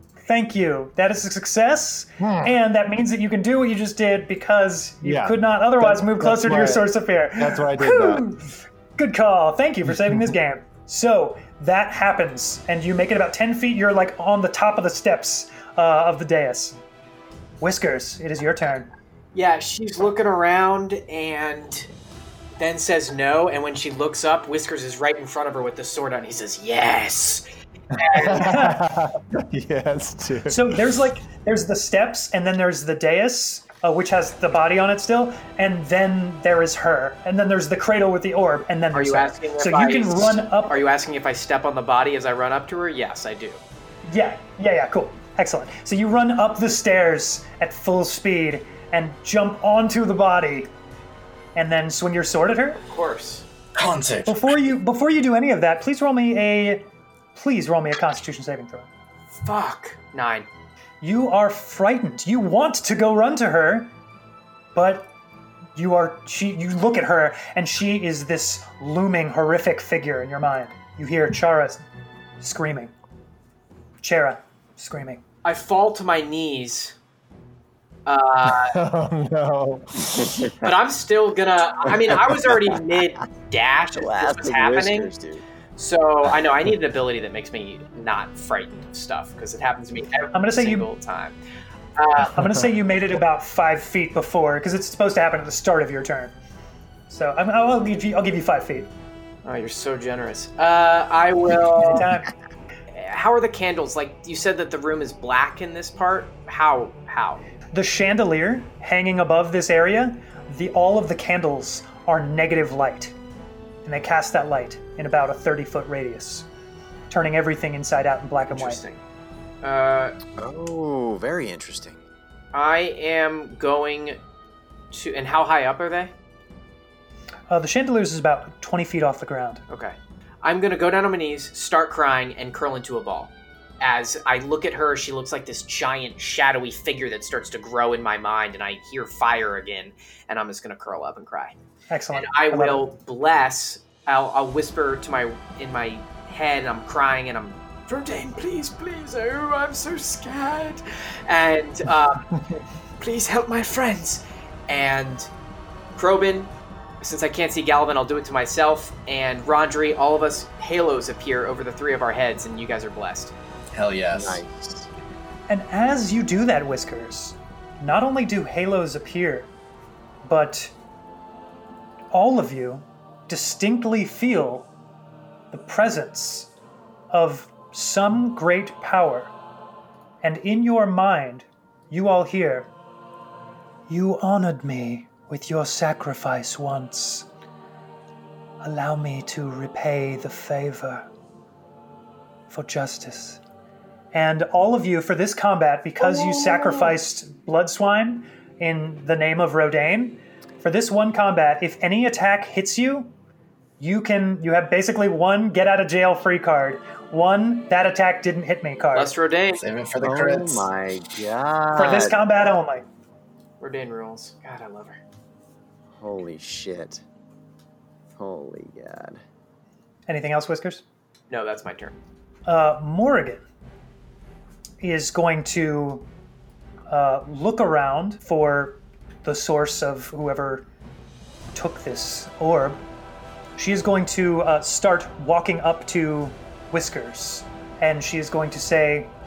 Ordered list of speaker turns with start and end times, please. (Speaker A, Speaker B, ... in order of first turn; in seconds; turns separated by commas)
Speaker A: 0.3-16.8, Speaker B: 2.2-2.5, Speaker B: 5.0-8.3, Speaker B: 9.9-10.3, Speaker A: 17.6-18.9, Speaker C: 19.3-21.9, Speaker C: 22.6-28.4, Speaker B: 28.0-30.8, Speaker A: 28.3-28.8, Speaker A: 30.5-40.8, Speaker C: 38.9-43.6, Speaker A: 44.1-50.7, Speaker A: 51.5-52.8, Speaker C: 52.9-53.5, Speaker D: 53.8-54.5, Speaker A: 54.3-58.9, Speaker C: 59.4-60.5, Speaker A: 61.0-63.9, Speaker A: 64.8-65.1, Speaker A: 65.8-71.8, Speaker A: 72.4-72.9, Speaker A: 74.0-75.2, Speaker C: 75.4-77.0, Speaker C: 78.1-78.8, Speaker B: 78.4-80.5, Speaker C: 80.6-85.1, Speaker E: 83.9-85.4, Speaker C: 85.8-91.4, Speaker A: 90.3-90.9, Speaker C: 92.0-92.5, Speaker A: 92.2-96.3, Speaker A: 97.1-98.9, Speaker C: 99.4-102.1, Speaker A: 101.8-102.3, Speaker C: 102.9-107.4, Speaker A: 107.7-113.2, Speaker A: 113.8-116.5, Speaker A: 117.1-118.8, Speaker C: 118.5-119.0, Speaker C: 119.6-120.2, Speaker E: 120.4-122.0, Speaker C: 122.5-124.2, Speaker C: 124.9-126.1, Speaker A: 127.5-129.6, Speaker C: 129.7-141.6, Speaker A: 141.9-142.9, Speaker C: 142.1-152.3, Speaker C: 153.0-155.3, Speaker C: 155.9-163.3, Speaker D: 163.7-164.4, Speaker E: 164.1-164.9, Speaker A: 165.5-169.5, Speaker A: 170.2-170.7, Speaker A: 172.1-174.7, Speaker A: 175.5-176.5, Speaker A: 177.1-179.3, Speaker A: 180.2-182.7, Speaker A: 183.9-187.3, Speaker A: 188.6-191.1, Speaker A: 192.5-193.4, Speaker A: 194.1-203.1, Speaker A: 203.8-209.1, Speaker C: 208.9-209.6, Speaker D: 209.6-210.7, Speaker E: 210.0-212.2, Speaker A: 211.7-212.9, Speaker C: 213.6-215.0, Speaker E: 216.0-217.0, Speaker E: 218.2-219.2, Speaker A: 220.1-220.8, Speaker C: 221.3-221.9, Speaker A: 222.5-223.4, Speaker A: 224.8-226.1, Speaker A: 226.9-230.7, Speaker A: 231.6-232.8, Speaker A: 233.6-239.1